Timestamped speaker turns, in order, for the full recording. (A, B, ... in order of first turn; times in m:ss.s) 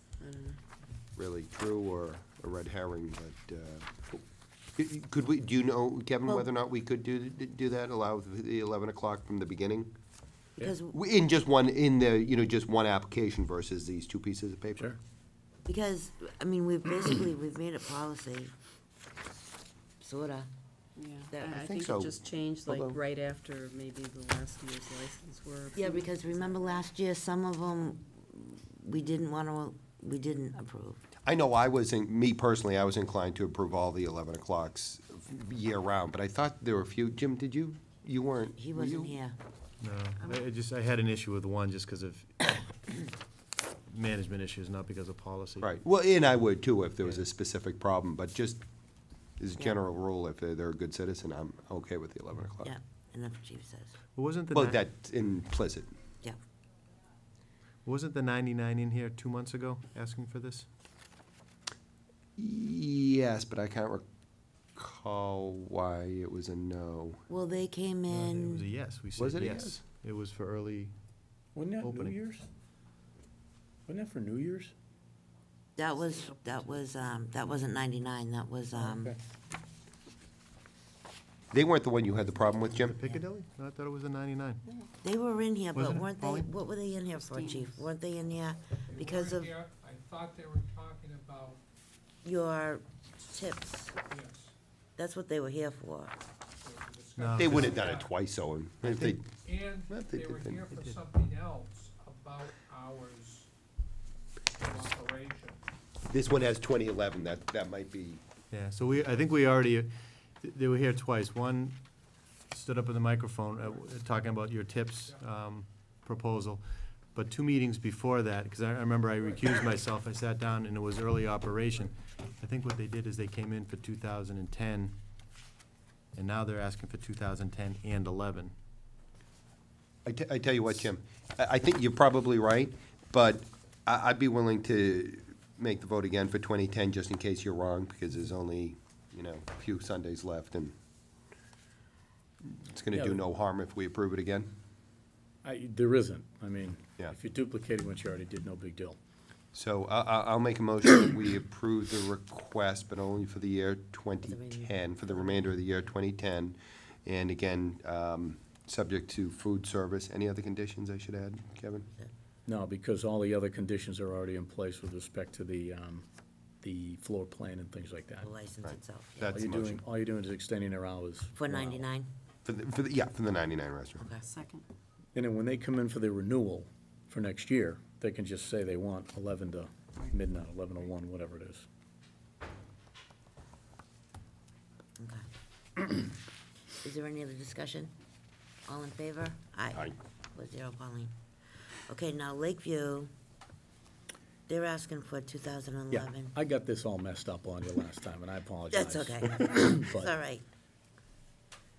0:00.2-0:00.6 A
0:01.2-0:04.2 B
0:04.8-0:09.9 B
0:10.6-0:11.0 C
0:10.9-0:15.0 B
0:15.6-0:18.5 C
0:20.0-0:20.5 C
0:21.0-0:26.9 A
0:21.3-0:21.7 C
0:21.6-0:23.0 B
0:25.7-0:31.0 C
0:31.2-0:39.2 B
0:38.6-0:39.3 C
0:39.8-0:42.7 D
0:43.9-0:45.7 D
0:45.6-0:48.6 B
0:49.4-0:52.7 B
0:52.6-0:54.0 C
0:54.1-0:54.8 D
0:54.5-0:55.9 B
0:57.8-1:00.7 D
1:02.4-1:04.0 B
1:04.7-1:07.2 B
1:07.3-1:08.6 C
1:08.1-1:10.9 D
1:09.2-1:09.8 B
1:11.5-1:12.5 E
1:11.8-1:12.1 D
1:13.9-1:14.7 E
1:15.8-1:19.1 C
1:18.8-1:19.2 E
1:21.5-1:23.0 B
1:22.8-1:24.6 D
1:25.0-1:29.5 C
1:25.7-1:26.5 D
1:27.2-1:27.8 A
1:28.9-1:31.6 F
1:32.2-1:34.0 C
1:34.1-1:34.5 F
1:35.0-1:36.1 C
1:36.6-1:38.1 F
1:37.2-1:37.8 D
1:37.4-1:39.2 B
1:38.8-1:39.2 D
1:39.2-1:43.5 F
1:39.9-1:40.6 B
1:40.7-1:41.0 D
1:44.6-1:45.6 F
1:46.1-1:48.2 B
1:48.5-1:51.8 D
1:52.5-2:05.0 D
2:06.1-2:08.5 D
2:10.0-2:20.7 B
2:22.6-2:24.5 B
2:22.9-2:23.2 E
2:25.4-2:29.0 E
2:29.5-2:41.8 B
2:34.3-2:35.4 C
2:42.5-2:46.0 E
2:46.6-2:48.3 E
2:48.2-2:49.3 C
2:48.6-2:49.8 B
2:49.3-2:51.9 E
2:51.4-2:52.1 C
2:52.4-2:54.0 B
2:54.0-2:54.2 C
2:54.2-2:54.6 A
2:55.1-3:01.6 E
3:05.0-3:05.2 C
3:06.8-3:07.9 C
3:08.7-3:11.1 C
3:11.9-3:13.1 C
3:14.5-3:16.3 C
3:15.9-3:20.1 E
3:18.7-3:20.4 C